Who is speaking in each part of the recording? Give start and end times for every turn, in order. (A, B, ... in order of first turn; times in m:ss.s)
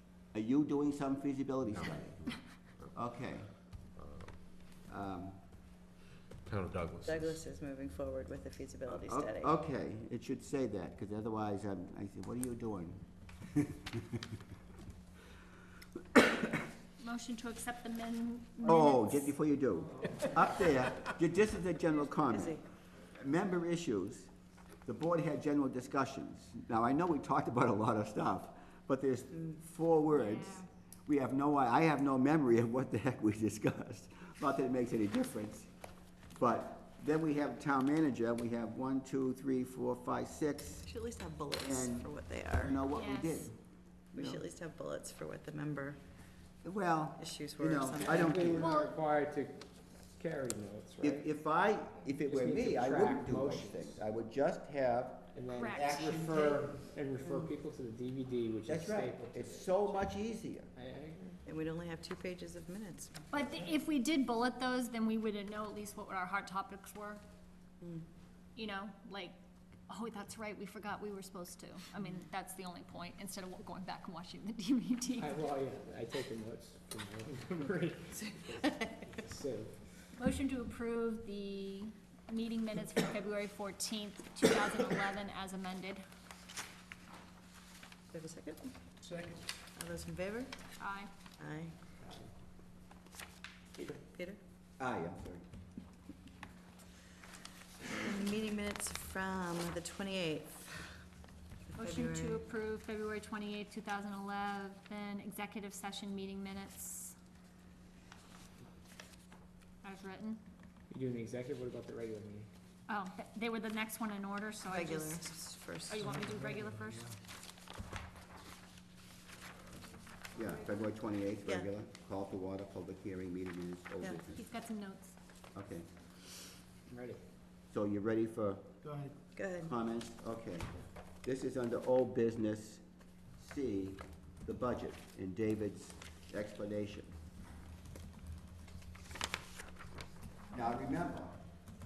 0:00.3-0:02.3 A
0:01.7-0:03.0 B
0:02.9-0:03.5 A
0:03.7-0:04.4 B
0:04.9-0:05.4 A
0:06.4-0:07.4 B
0:07.1-0:09.5 C
0:09.1-0:14.2 A
0:17.0-0:19.3 D
0:18.6-0:24.3 A
0:22.3-0:22.6 C
0:24.8-0:35.7 A
0:30.1-0:30.7 D
0:36.4-0:40.9 A
0:40.9-0:42.8 C
0:41.6-0:43.6 A
0:42.9-0:43.5 D
0:44.1-0:44.4 A
0:44.2-0:46.0 C
0:46.6-0:48.8 A
0:47.2-0:48.5 C
0:48.1-0:51.3 E
0:48.6-0:49.0 D
0:51.0-0:56.7 A
0:52.3-0:54.0 E
0:55.3-0:59.7 E
0:55.5-0:56.1 D
0:58.7-1:00.7 A
1:00.8-1:01.4 E
1:01.4-1:03.3 C
1:03.3-1:07.2 D
1:08.6-1:09.4 D
1:09.9-1:15.4 D
1:15.2-1:20.1 E
1:20.2-1:26.0 D
1:28.1-1:28.8 C
1:29.7-1:30.7 C
1:30.8-1:31.1 D
1:31.4-1:31.8 C
1:33.9-1:34.4 C
1:34.8-1:35.4 A
1:37.9-1:41.0 C
1:41.7-1:42.4 C
1:41.8-1:47.2 D
1:49.8-1:50.4 D
1:50.9-1:52.5 E
1:52.9-1:55.3 D
1:54.7-1:56.0 C
1:55.9-1:57.1 D
2:00.3-2:04.5 A
2:04.3-2:05.2 D
2:05.5-2:05.9 A
2:06.9-2:07.2 E
2:07.7-2:08.7 A
2:09.3-2:09.7 C
2:09.6-2:10.7 A
2:11.2-2:12.8 A
2:13.4-2:17.1 A
2:20.5-2:21.4 A